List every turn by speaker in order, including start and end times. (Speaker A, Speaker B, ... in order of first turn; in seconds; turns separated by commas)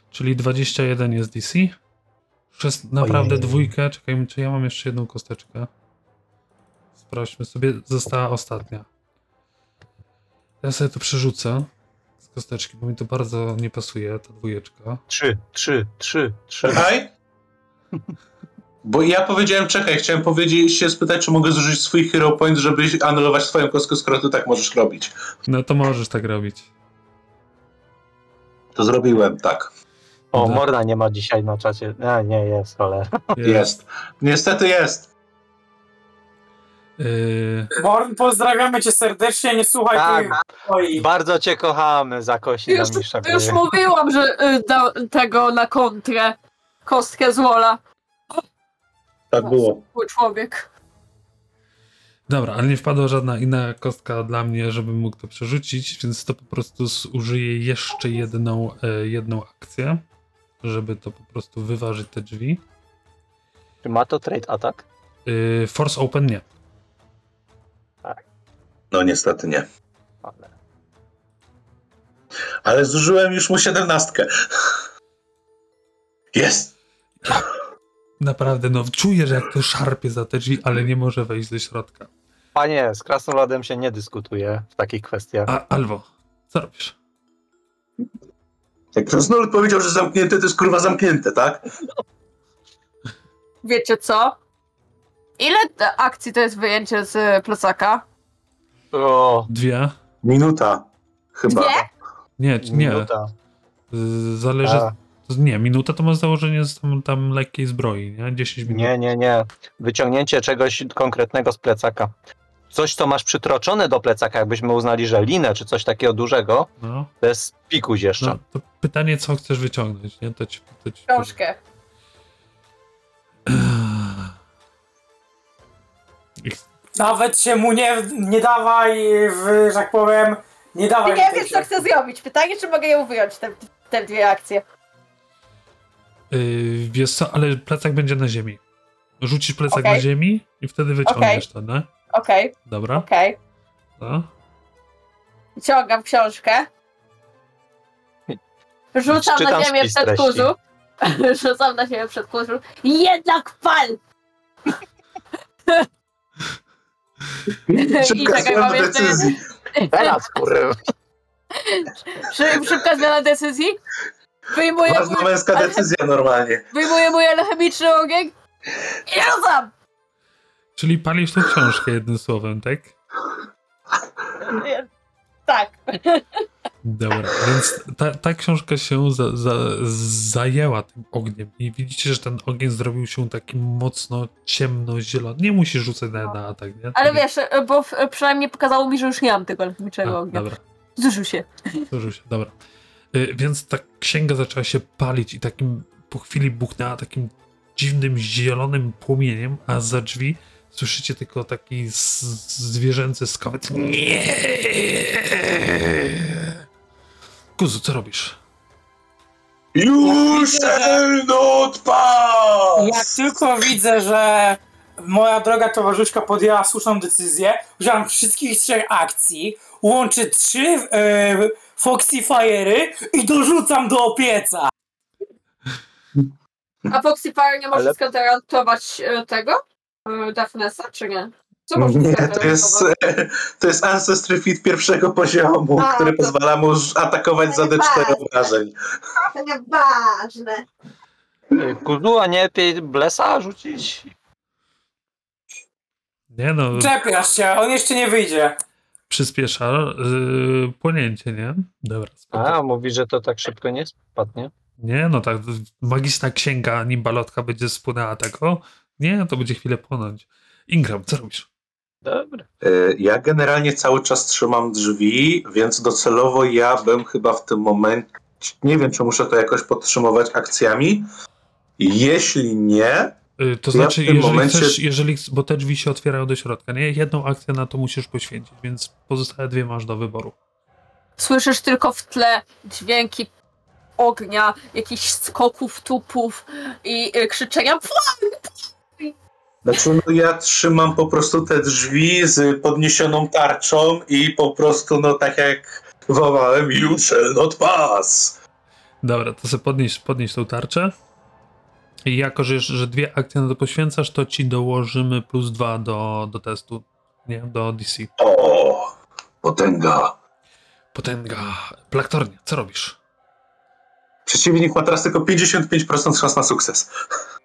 Speaker A: 0.1-1.7, Speaker A: 2.5-5.7, Speaker B: 3.0-3.7, Speaker A: 7.0-8.9, Speaker A: 10.6-11.7, Speaker A: 12.2-15.0, Speaker B: 15.1-16.9, Speaker C: 16.6-17.1, Speaker C: 18.8-25.1, Speaker A: 25.4-26.7, Speaker C: 28.7-29.7, Speaker B: 30.3-33.4, Speaker A: 30.3-30.6, Speaker A: 33.4-33.7, Speaker C: 33.4-35.1, Speaker A: 37.0-37.7, Speaker D: 37.7-41.0, Speaker B: 39.9-43.6, Speaker E: 42.7-47.8, Speaker C: 49.3-49.8, Speaker E: 49.4-50.7, Speaker A: 52.3-60.0, Speaker A: 60.6-62.6, Speaker B: 63.8-64.8, Speaker A: 65.2-66.4, Speaker C: 68.9-69.7, Speaker B: 70.2-70.5, Speaker C: 72.6-74.7, Speaker C: 76.3-76.7, Speaker A: 78.2-82.1, Speaker B: 82.5-85.5, Speaker A: 85.5-86.9, Speaker C: 88.9-91.6, Speaker E: 93.6-94.3, Speaker E: 95.4-98.0, Speaker B: 98.9-99.5, Speaker A: 99.5-99.9, Speaker C: 100.2-100.8, Speaker C: 101.4-101.8, Speaker E: 101.5-101.9, Speaker A: 102.4-103.1, Speaker B: 102.6-103.3, Speaker A: 103.9-108.9, Speaker B: 104.6-104.9, Speaker B: 108.7-112.1, Speaker B: 112.7-116.7, Speaker A: 116.8-117.1, Speaker B: 117.2-118.4, Speaker A: 118.2-121.3, Speaker E: 121.1-121.6, Speaker A: 123.5-124.3, Speaker D: 127.0-131.7, Speaker E: 131.0-134.6, Speaker A: 136.3-138.6, Speaker A: 139.2-141.9, Speaker E: 139.7-140.0, Speaker E: 141.0-141.4, Speaker E: 142.1-143.4, Speaker A: 142.7-143.1, Speaker A: 144.0-144.3, Speaker E: 145.6-146.7, Speaker E: 148.9-154.0, Speaker B: 149.1-150.5, Speaker C: 157.5-159.4, Speaker E: 157.7-160.4, Speaker B: 159.9-160.8, Speaker E: 161.6-163.8, Speaker E: 164.5-165.8, Speaker C: 164.8-166.7, Speaker E: 166.7-168.3, Speaker E: 169.1-169.7, Speaker A: 170.8-172.9, Speaker E: 174.4-174.9, Speaker E: 175.5-176.2, Speaker A: 176.8-187.2, Speaker E: 186.9-191.9, Speaker A: 190.0-190.6, Speaker A: 191.9-192.5, Speaker A: 193.1-206.5, Speaker A: 207.6-208.4, Speaker C: 209.7-213.2, Speaker D: 210.0-211.0, Speaker D: 212.8-224.7, Speaker E: 226.9-232.9, Speaker C: 231.8-238.7, Speaker E: 235.8-236.3, Speaker E: 237.5-238.2, Speaker E: 239.2-240.6, Speaker B: 241.6-244.1, Speaker A: 246.3-246.9, Speaker D: 246.7-248.6, Speaker A: 249.1-252.6, Speaker B: 252.3-254.5, Speaker A: 254.8-261.5, Speaker B: 262.0-262.4, Speaker C: 262.6-271.1, Speaker C: 271.8-273.1, Speaker A: 273.4-280.4, Speaker C: 273.7-274.8, Speaker E: 281.2-283.3, Speaker E: 284.0-288.4, Speaker C: 289.6-298.4, Speaker A: 299.0-300.9, Speaker A: 302.1-308.1, Speaker C: 308.2-310.1, Speaker A: 310.9-313.0, Speaker C: 314.2-316.9